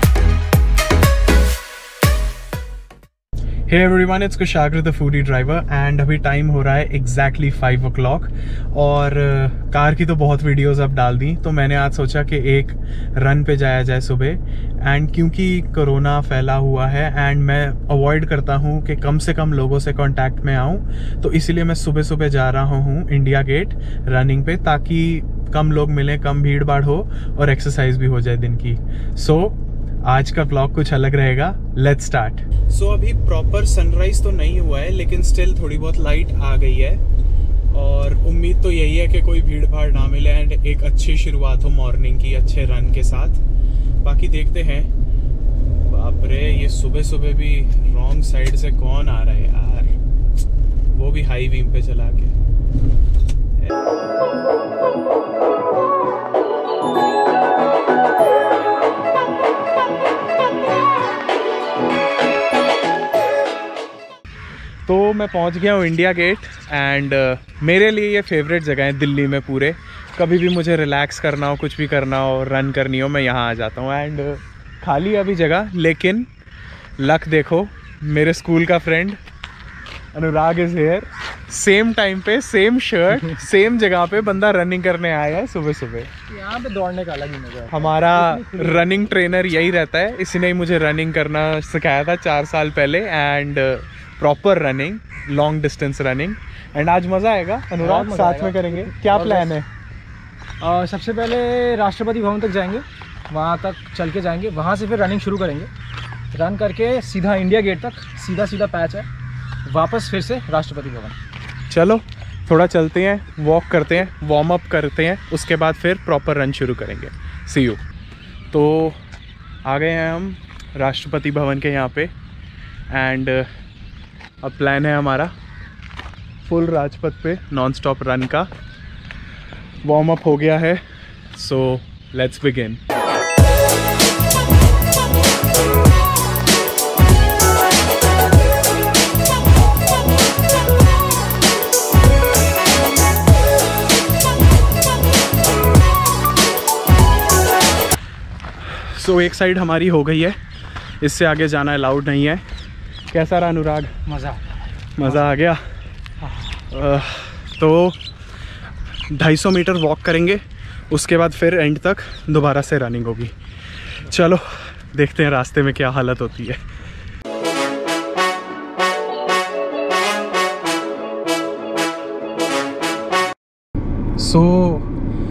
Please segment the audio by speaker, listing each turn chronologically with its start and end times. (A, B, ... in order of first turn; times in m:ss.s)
0:03.7-0:37.0 A
0:37.7-0:43.4 A
0:44.0-0:44.9 A
0:45.9-0:49.9 A
0:50.9-0:52.3 A
1:04.9-1:16.3 A
1:17.0-1:19.2 A
1:20.1-1:26.1 A
1:26.3-1:29.1 B
1:27.7-1:39.7 A
1:37.8-1:39.6 B
1:40.6-1:45.7 B
1:46.3-1:49.1 B
1:49.6-1:51.2 B
1:51.7-1:57.8 A
1:58.5-1:59.0 A
1:59.6-2:02.1 A
2:02.9-2:03.5 A
2:04.4-2:05.3 A
2:06.4-2:08.5 A
2:09.8-2:10.8 A
2:11.3-2:12.8 A
2:28.6-2:30.4 A
2:31.0-2:32.4 A
2:33.1-2:33.9 A
2:34.1-2:34.4 B
2:35.0-2:35.6 A
2:35.0-2:35.3 B
2:36.2-2:36.6 B
2:36.7-2:38.0 A
2:39.1-2:43.3 A
2:44.1-2:46.6 A
2:54.2-2:54.9 A